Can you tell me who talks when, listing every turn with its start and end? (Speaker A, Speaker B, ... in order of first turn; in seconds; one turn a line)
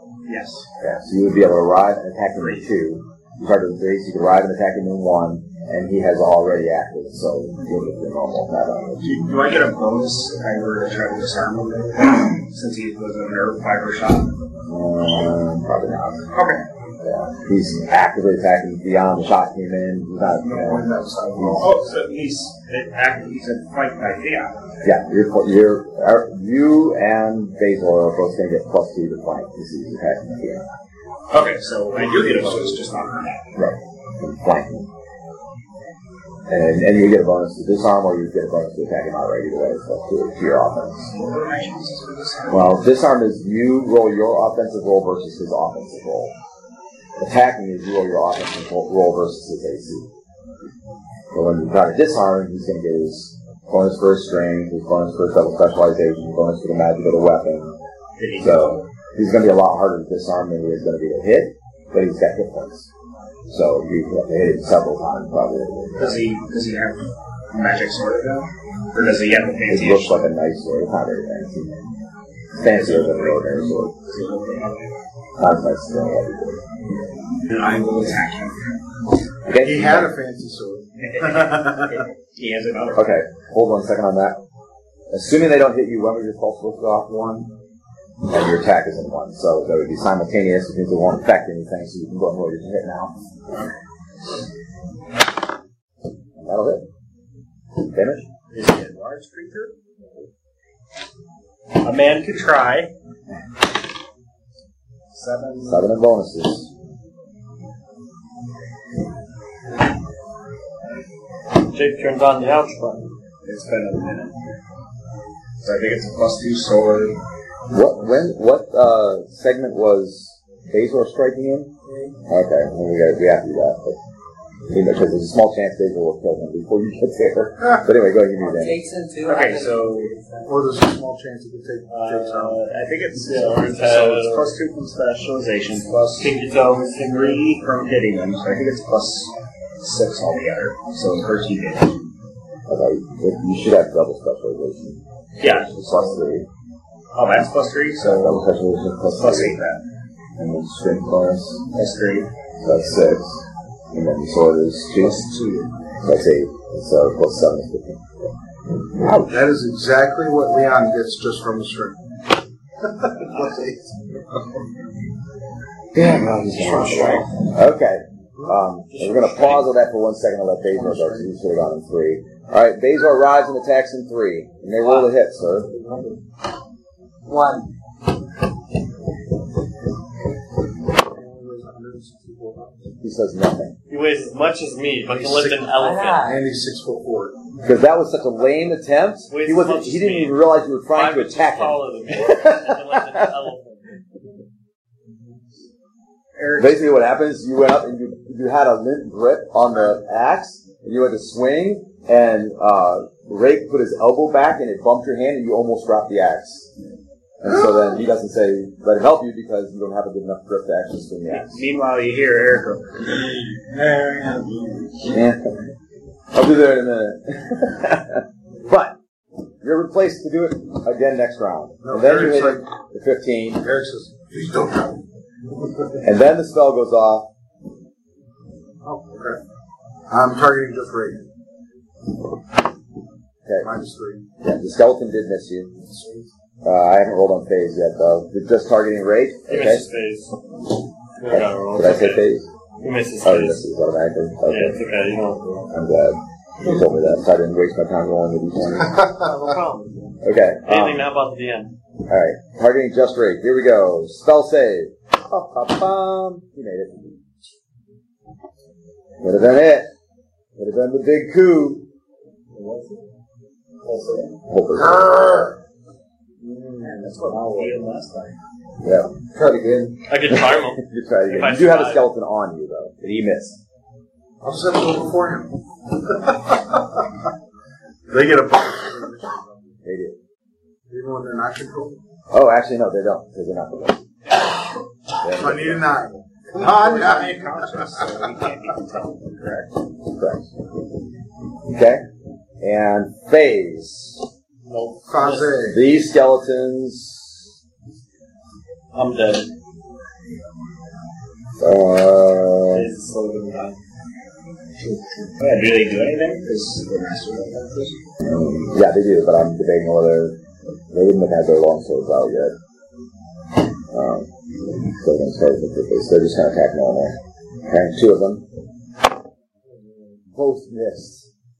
Speaker A: 0.2-0.7
Speaker B: 0.8-9.2
Speaker A: 2.4-2.6
Speaker A: 9.0-14.3
Speaker B: 14.7-16.3
Speaker A: 16.3-16.6
Speaker B: 17.0-21.7
Speaker C: 20.4-21.8
Speaker A: 21.5-24.6
Speaker B: 24.8-30.6
Speaker A: 31.3-33.5
Speaker B: 33.5-34.9
Speaker B: 36.5-41.1
Speaker A: 41.1-42.8
Speaker B: 42.5-46.3
Speaker B: 47.2-50.1
Speaker B: 51.3-57.7
Speaker A: 58.2-58.8
Speaker B: 58.4-62.9
Speaker B: 63.5-66.2
Speaker A: 66.0-70.2
Speaker B: 69.7-71.7
Speaker B: 72.5-73.9
Speaker A: 72.6-74.8
Speaker B: 75.4-76.6
Speaker A: 77.5-78.7
Speaker B: 79.5-80.1
Speaker C: 79.6-82.0
Speaker A: 81.0-83.2
Speaker B: 82.9-84.4
Speaker B: 85.1-87.5
Speaker B: 88.3-93.2
Speaker B: 96.4-96.8
Speaker B: 97.8-98.2
Speaker A: 98.5-99.8
Speaker A: 101.7-102.9
Speaker A: 105.1-105.8
Speaker B: 105.6-106.7
Speaker D: 111.6-113.1
Speaker A: 113.4-114.3
Speaker A: 115.6-117.2
Speaker B: 117.7-121.7
Speaker B: 122.3-124.0
Speaker B: 124.7-128.8
Speaker E: 128.4-130.6
Speaker A: 129.2-130.1
Speaker C: 130.4-132.6
Speaker A: 131.9-142.0
Speaker D: 133.2-134.6
Speaker D: 136.2-137.4
Speaker B: 142.7-146.5
Speaker A: 145.4-146.2
Speaker A: 147.1-148.4
Speaker B: 148.0-149.6
Speaker A: 149.1-149.8
Speaker B: 150.4-151.6
Speaker A: 151.7-152.3
Speaker B: 152.6-155.3
Speaker A: 155.0-155.7
Speaker B: 156.0-158.3
Speaker B: 159.0-159.4
Speaker C: 159.2-162.0
Speaker C: 162.8-164.4
Speaker B: 165.9-175.7
Speaker A: 166.6-167.3
Speaker D: 168.9-169.7
Speaker C: 170.7-171.3
Speaker D: 174.8-175.1
Speaker C: 175.8-176.1
Speaker E: 177.3-177.6
Speaker C: 180.9-182.9
Speaker B: 183.0-183.7
Speaker D: 183.9-186.3
Speaker C: 185.1-185.7
Speaker E: 185.7-186.5
Speaker C: 186.2-187.4
Speaker B: 187.6-193.3
Speaker D: 189.3-193.9
Speaker A: 196.3-196.9
Speaker B: 196.6-206.7
Speaker B: 207.4-211.6
Speaker A: 211.3-214.8
Speaker B: 215.1-215.4
Speaker B: 216.3-218.9
Speaker B: 219.6-223.6
Speaker C: 221.8-222.7
Speaker C: 223.6-225.0
Speaker B: 226.0-227.3
Speaker C: 228.8-229.4
Speaker C: 230.1-231.3
Speaker B: 233.4-233.7
Speaker C: 233.6-234.2
Speaker B: 234.4-235.7
Speaker C: 235.8-236.3
Speaker B: 236.6-239.8
Speaker D: 239.5-240.3
Speaker D: 241.2-242.2
Speaker B: 241.3-242.5
Speaker D: 242.8-243.6
Speaker B: 243.2-244.8
Speaker D: 244.4-245.7
Speaker B: 245.7-249.1
Speaker C: 248.9-249.5
Speaker D: 249.4-249.8
Speaker B: 250.2-251.1
Speaker D: 250.7-251.7
Speaker B: 252.1-257.2
Speaker B: 259.2-259.9
Speaker B: 260.6-261.8
Speaker A: 262.5-263.0
Speaker A: 263.8-264.3
Speaker B: 264.5-265.1
Speaker C: 264.7-265.6
Speaker A: 266.8-268.3
Speaker C: 267.2-267.7
Speaker B: 268.8-269.1
Speaker C: 269.3-269.9
Speaker D: 270.1-272.0
Speaker B: 270.3-273.6
Speaker C: 274.4-277.0
Speaker C: 278.1-279.8
Speaker B: 279.8-280.1
Speaker C: 280.9-282.0
Speaker B: 282.3-284.0
Speaker B: 285.2-286.0
Speaker C: 285.4-288.3
Speaker A: 286.6-289.7
Speaker B: 290.1-290.5
Speaker B: 291.7-292.0
Speaker B: 292.6-294.2
Speaker D: 294.6-295.6
Speaker C: 295.1-295.8
Speaker B: 295.6-297.4
Speaker D: 298.9-299.5
Speaker B: 301.6-302.9
Speaker D: 302.7-303.8
Speaker A: 305.4-307.9
Speaker B: 308.2-310.4
Speaker B: 310.9-312.6
Speaker B: 313.9-314.3
Speaker B: 315.0-318.4
Speaker B: 320.3-321.3